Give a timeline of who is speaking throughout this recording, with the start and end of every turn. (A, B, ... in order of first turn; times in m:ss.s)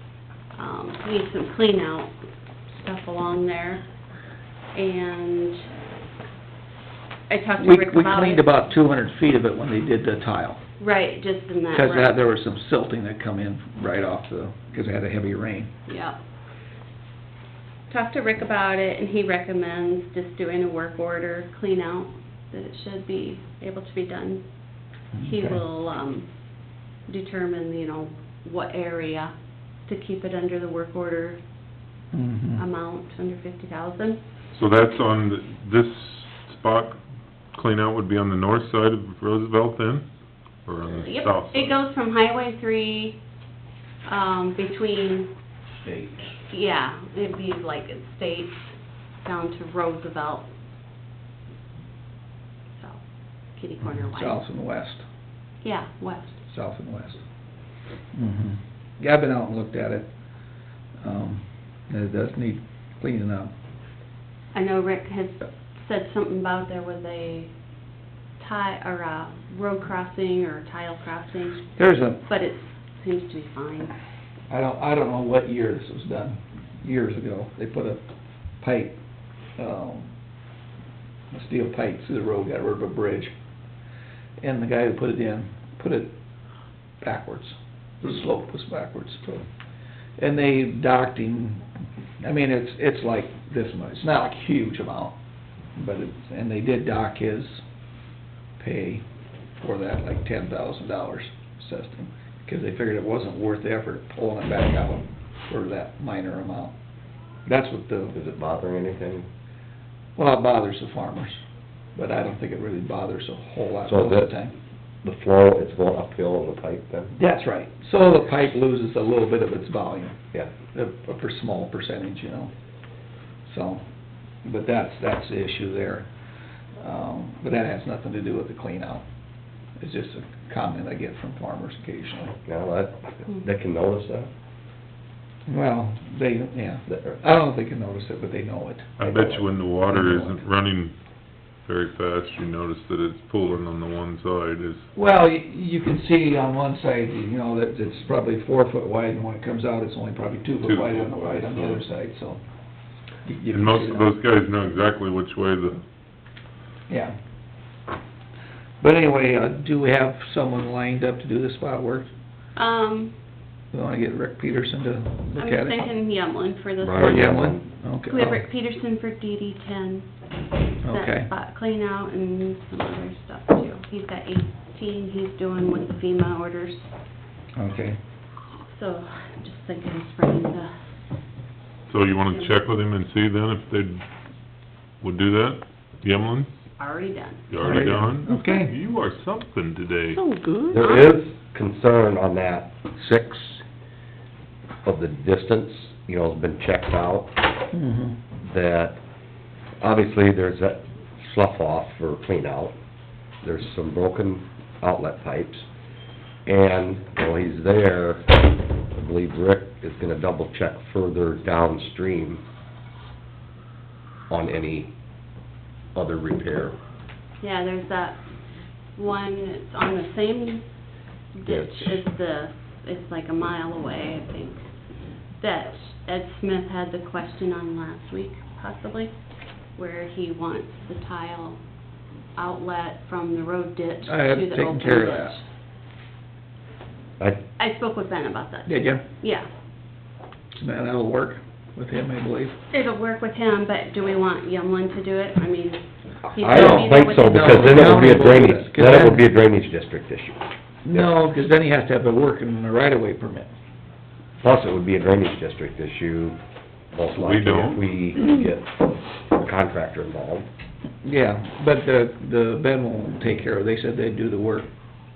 0:00.6-0:02.1 A
0:02.7-0:03.8 A
0:04.7-0:05.6 A
0:07.3-0:08.4 A
0:07.6-0:10.6 B
0:10.8-0:12.2 A
0:11.7-0:15.7 B
0:15.9-0:16.2 A
0:17.9-0:24.4 A
0:25.1-0:25.6 B
0:25.2-0:26.3 A
0:27.1-0:29.3 A
0:29.9-0:31.4 A
0:32.1-0:32.6 B
0:32.6-0:34.2 A
0:34.5-0:37.0 C
0:37.5-0:40.1 C
0:40.6-0:41.8 C
0:41.0-0:43.2 A
0:44.0-0:45.3 A
0:46.5-0:50.5 A
0:52.7-0:53.0 A
0:53.6-0:54.4 A
0:53.8-0:55.0 B
0:55.6-0:56.4 A
0:56.5-0:57.2 B
0:58.1-1:00.1 B
1:01.0-1:03.5 B
1:04.5-1:07.5 A
1:08.4-1:13.9 A
1:11.8-1:12.2 B
1:14.5-1:18.0 B
1:18.6-1:19.0 B
1:19.6-1:20.1 B
1:21.3-1:23.3 B
1:24.4-1:26.1 B
1:27.0-1:29.4 B
1:30.2-1:31.6 B
1:32.2-1:35.2 B
1:35.8-1:37.6 B
1:38.6-1:39.0 B
1:39.6-1:46.7 B
1:47.5-1:48.2 B
1:48.1-1:49.3 D
1:50.2-1:51.4 B
1:51.9-1:54.5 B
1:53.8-1:54.4 D
1:55.0-1:57.1 D
1:57.1-2:02.5 B
2:03.5-2:03.8 B
2:04.4-2:06.1 B
2:06.8-2:09.0 B
2:09.8-2:12.4 B
2:12.4-2:14.3 D
2:15.5-2:18.9 B
2:19.0-2:20.9 C
2:19.0-2:19.5 D
2:19.9-2:20.4 B
2:21.6-2:24.8 C
2:24.9-2:32.4 B
2:30.6-2:31.8 C
2:33.2-2:34.1 B
2:33.5-2:35.8 C
2:36.9-2:37.1 B
2:38.8-2:42.1 B
2:42.6-2:43.1 A
2:43.7-2:45.9 B
2:45.4-2:47.4 A
2:46.8-2:47.6 D
2:47.0-2:48.4 B
2:48.1-2:50.1 A
2:50.8-2:51.3 B
2:50.9-2:56.9 A
2:57.6-2:58.0 B
2:58.7-3:00.7 A
3:01.9-3:04.0 C
3:02.3-3:02.6 A
3:05.0-3:06.5 C
3:06.8-3:07.5 A
3:07.5-3:10.2 C
3:07.6-3:08.7 B
3:10.2-3:11.2 A
3:10.7-3:13.6 D
3:14.8-3:17.4 D
3:17.7-3:18.2 B
3:18.4-3:19.0 D
3:19.8-3:22.7 D
3:23.4-3:25.6 D
3:26.4-3:32.4 D
3:34.3-3:34.9 D
3:35.9-3:36.8 D
3:37.4-3:38.2 A
3:39.0-3:40.6 A
3:41.3-3:44.7 A
3:41.4-3:42.0 D
3:45.4-3:49.1 A
3:49.8-3:51.6 A
3:52.4-3:55.4 A
3:54.1-3:55.4 B
3:57.6-3:59.5 A
3:58.6-3:59.0 B
4:00.5-4:02.6 B
4:02.7-4:08.2 A
4:06.4-4:10.4 D
4:06.4-4:09.3 B
4:10.8-4:13.5 B
4:14.4-4:16.4 D
4:16.9-4:20.5 D
4:17.1-4:17.8 C
4:21.0-4:24.7 B